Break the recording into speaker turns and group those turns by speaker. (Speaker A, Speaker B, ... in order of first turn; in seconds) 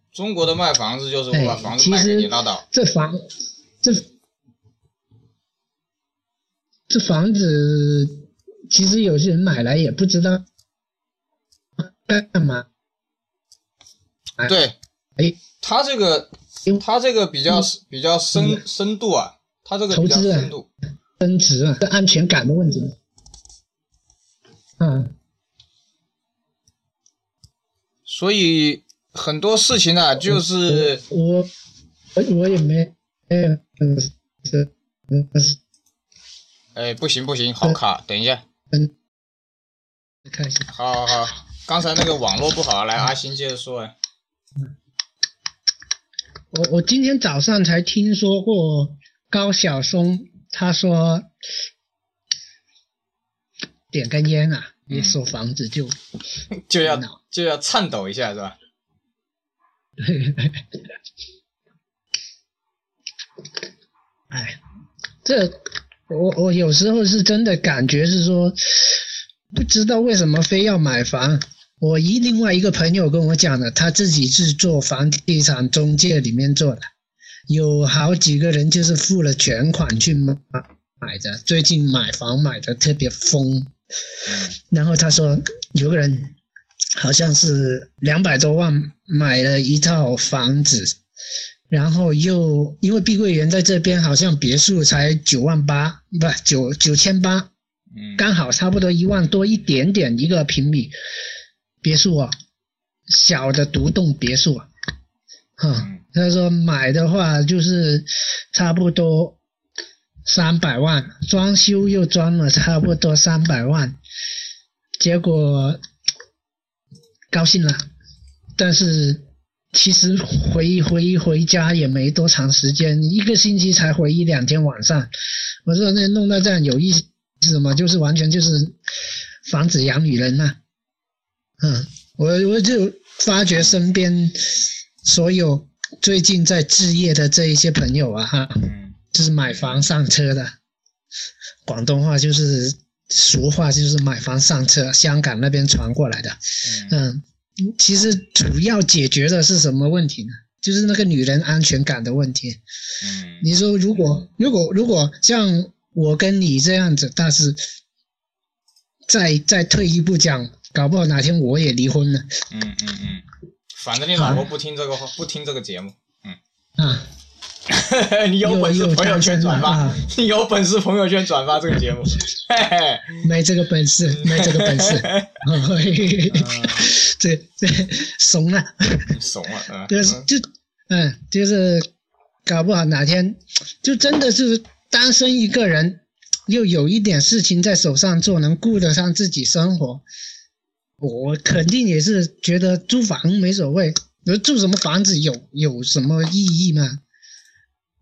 Speaker A: 0.1-2.6, 14.4-14.8, 15.6-20.7, 28.1-31.0, 36.7-38.4, 40.7-43.9, 54.9-55.2, 56.6-58.5, 84.3-84.5, 97.9-98.2, 105.8-106.0, 138.6-138.9, 146.6-146.9, 153.0-153.5, 162.5-163.2, 163.8-166.4, 167.7-173.2, 174.1-175.4, 176.3-176.8, 179.1-180.2
Speaker B: 1.3-3.2, 6.9-10.4, 11.8-12.7, 18.3-18.6, 19.9-20.5, 21.2-22.9, 24.8-25.1, 30.2-31.5, 32.1-35.6, 40.2-40.7, 46.5-51.3, 53.9-55.9, 56.8-57.1, 60.0-60.6, 64.3-64.6, 65.2-69.0, 69.5-76.8, 77.5-83.7, 84.6-86.3, 87.0-91.0, 91.7-97.5, 98.2-100.9, 101.8-102.3, 103.1-104.7, 105.6-109.4, 110.2-114.0, 115.0-115.8, 117.3-117.8, 118.6-125.1, 125.7-128.8, 129.4-130.6, 131.6-134.4, 135.0-140.5, 141.6-152.6, 153.4-157.6, 159.1-162.3, 164.2-164.4, 166.8-167.1, 168.4-170.1, 173.2-179.1, 179.9-181.9, 182.4-190.0, 191.0-197.0